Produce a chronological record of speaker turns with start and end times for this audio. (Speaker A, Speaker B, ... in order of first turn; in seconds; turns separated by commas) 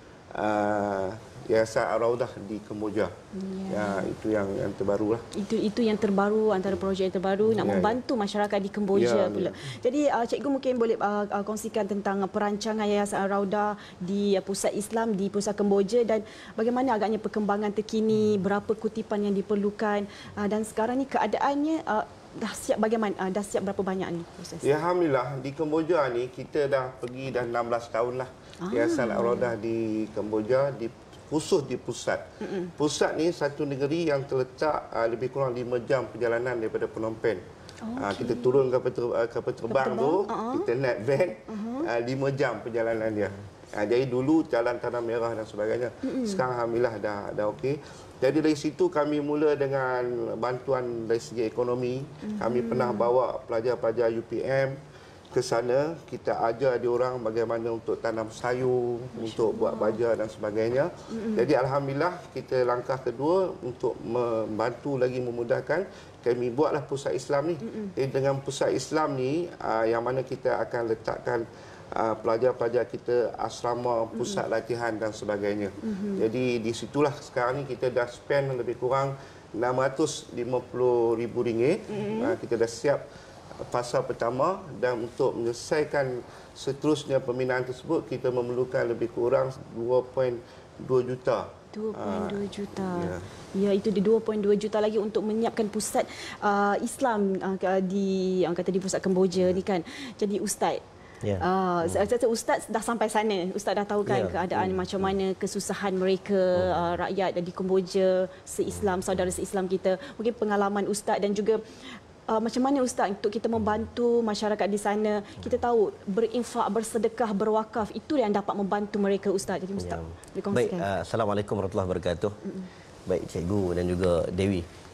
Speaker A: 0.3-3.1, Speaker B: 3.3-4.1, Speaker A: 3.7-5.2, Speaker B: 5.3-24.7, Speaker A: 7.5-8.0, Speaker A: 8.9-9.6, Speaker A: 24.6-32.2, Speaker B: 28.6-29.5, Speaker B: 32.4-32.7, Speaker A: 32.8-37.4, Speaker B: 37.8-38.6, Speaker A: 38.0-54.8, Speaker B: 39.7-40.7, Speaker B: 41.5-41.9, Speaker B: 46.0-46.4, Speaker B: 52.2-53.1, Speaker A: 55.3-83.0, Speaker B: 59.1-60.0, Speaker B: 61.1-61.5, Speaker B: 67.6-67.9, Speaker B: 74.1-74.4, Speaker B: 75.8-76.2, Speaker B: 81.9-82.4, Speaker A: 83.7-93.2, Speaker B: 91.7-100.8, Speaker C: 101.2-102.0, Speaker B: 101.4-111.6, Speaker C: 104.1-104.9, Speaker C: 106.6-106.9, Speaker B: 112.3-120.9, Speaker C: 119.8-122.4, Speaker C: 123.1-124.7